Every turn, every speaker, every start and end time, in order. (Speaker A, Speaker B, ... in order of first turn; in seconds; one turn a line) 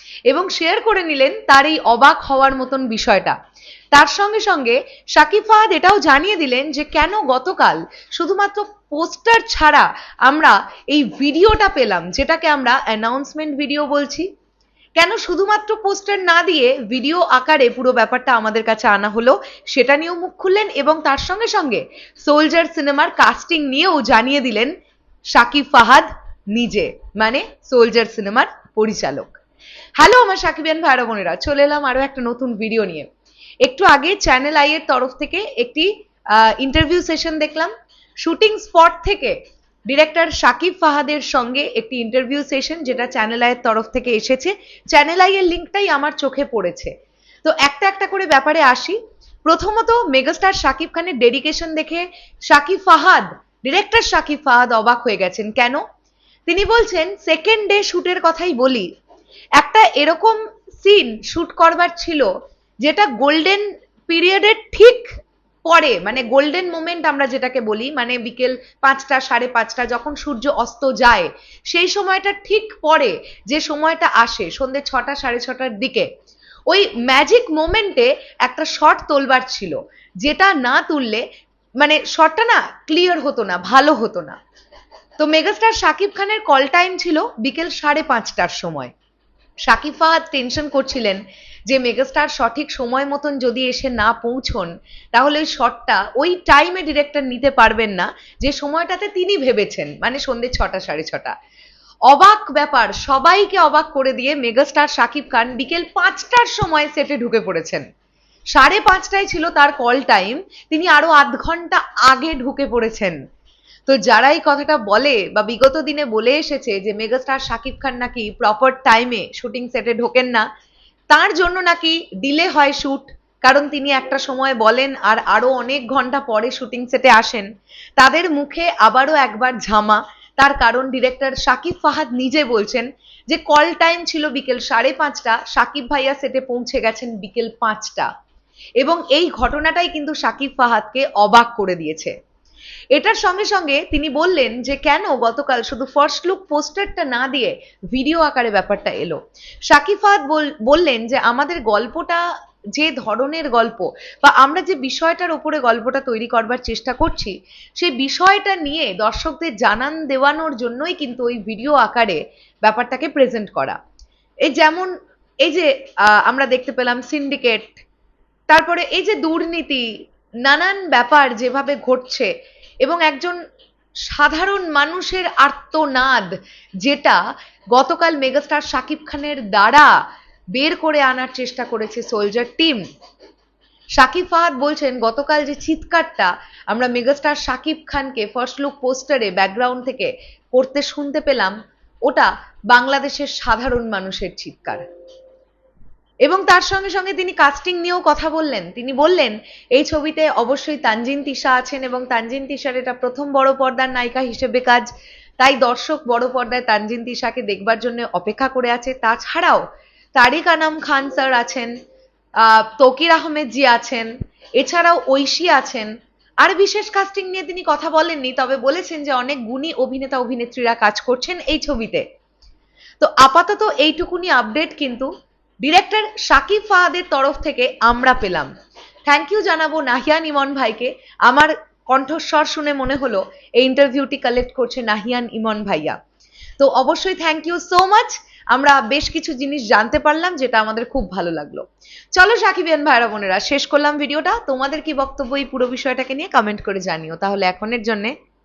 Speaker A: 0.3-3.4
Speaker A: 3.9-14.3
Speaker A: 15.0-24.7
Speaker A: 25.3-29.4
Speaker A: 30.0-33.1
Speaker A: 33.6-39.4
Speaker A: 39.9-46.9
Speaker A: 47.5-55.8
Speaker A: 56.5-58.9
Speaker A: 59.6-62.3
Speaker A: 62.8-65.1
Speaker A: 65.7-76.1
Speaker A: 76.7-81.2
Speaker A: 81.8-84.4
Speaker A: 85.2-88.9
Speaker A: 89.7-101.3
Speaker A: 102.1-107.8
Speaker A: 108.5-113.2
Speaker A: 113.9-120.5
Speaker A: 121.1-138.1
Speaker A: 138.8-142.2
Speaker A: 142.9-152.2
Speaker A: 152.8-163.8
Speaker A: 164.5-164.9
Speaker A: 165.4-167.8
Speaker A: 168.5-169.9
Speaker A: 170.4-172.3
Speaker A: 172.8-173.4
Speaker A: 174.1-176.3
Speaker A: 176.8-177.2
Speaker A: 177.7-179.9
Speaker A: 180.6-182.8
Speaker A: 184.0-194.8
Speaker A: 196.2-204.9
Speaker A: 205.4-209.6
Speaker A: 210.2-211.7
Speaker A: 212.4-215.9
Speaker A: 216.4-222.1
Speaker A: 223.0-225.1
Speaker A: 225.6-228.5
Speaker A: 229.1-236.0
Speaker A: 236.6-248.2